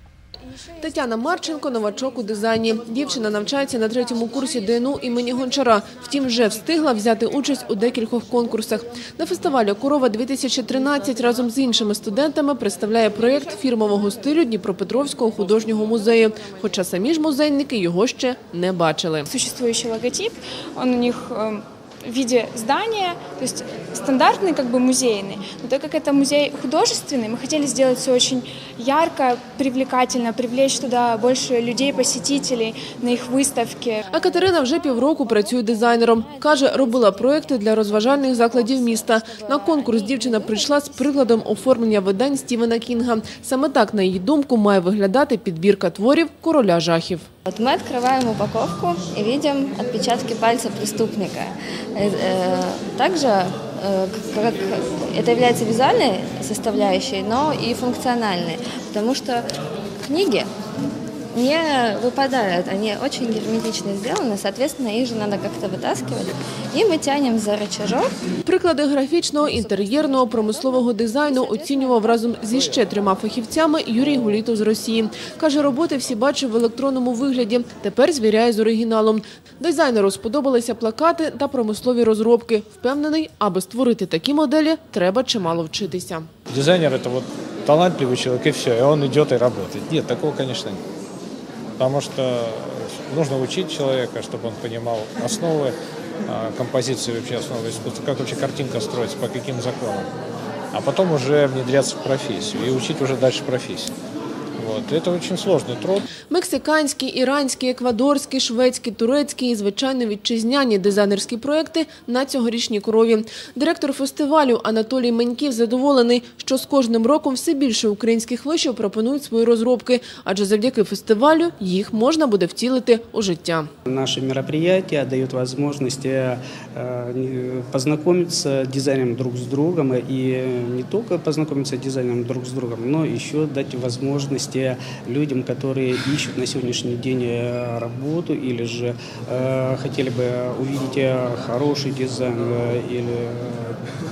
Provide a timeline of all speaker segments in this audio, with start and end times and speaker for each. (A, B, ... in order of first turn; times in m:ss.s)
0:00.8-0:19.3 A
0:19.3-0:34.0 B
0:34.1-0:47.3 A
0:34.1-0:41.3 C
0:47.5-0:59.5 C
1:00.0-1:00.5 C
1:01.3-1:08.1 C
1:08.4-1:26.3 A
1:09.5-1:12.3 C
1:26.5-1:30.8 D
1:31.8-1:40.1 D
1:40.7-1:43.9 D
1:44.6-1:46.0 D
1:46.3-2:03.7 A
2:03.9-2:23.8 E